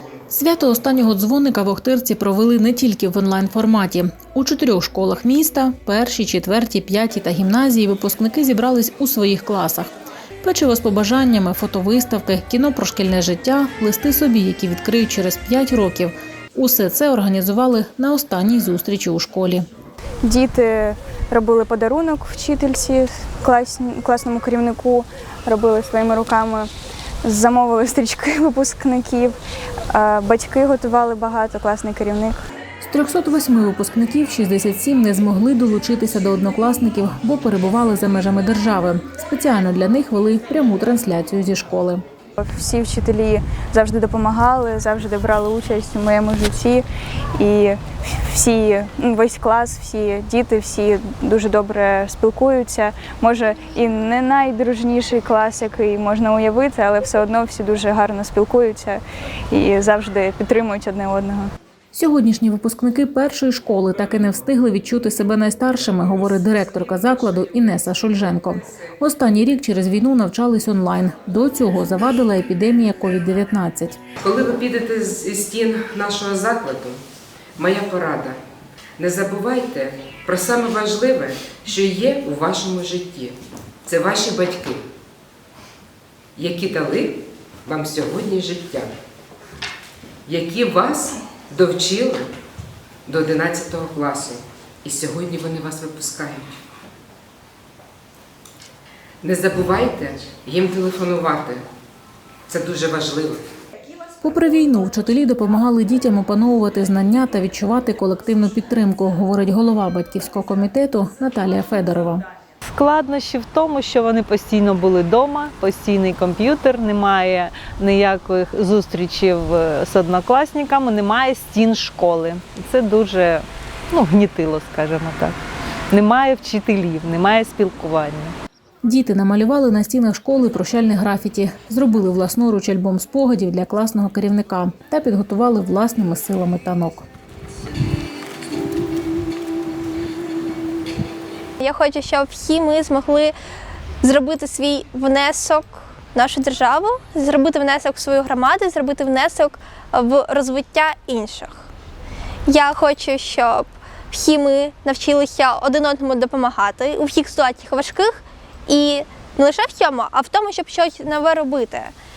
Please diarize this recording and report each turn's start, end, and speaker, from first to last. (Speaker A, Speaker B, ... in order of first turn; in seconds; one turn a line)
Speaker A: 0.3-9.9
Speaker A: 10.4-19.6
Speaker B: 20.2-26.7
Speaker B: 27.2-29.4
Speaker B: 29.9-32.4
Speaker A: 32.8-42.0
Speaker B: 42.4-46.9
Speaker B: 47.4-61.5
Speaker A: 61.9-74.0
Speaker C: 74.2-77.0
Speaker C: 77.6-78.4
Speaker C: 79.0-84.8
Speaker C: 86.4-88.9
Speaker C: 90.3-92.3
Speaker C: 93.1-96.5
Speaker C: 99.2-101.7
Speaker C: 102.5-103.4
Speaker A: 104.2-112.2
Speaker D: 112.7-125.4
Speaker D: 125.9-128.4
Speaker A: 128.8-137.1
Speaker E: 141.6-143.3
Speaker E: 144.0-151.7
Speaker E: 152.5-161.9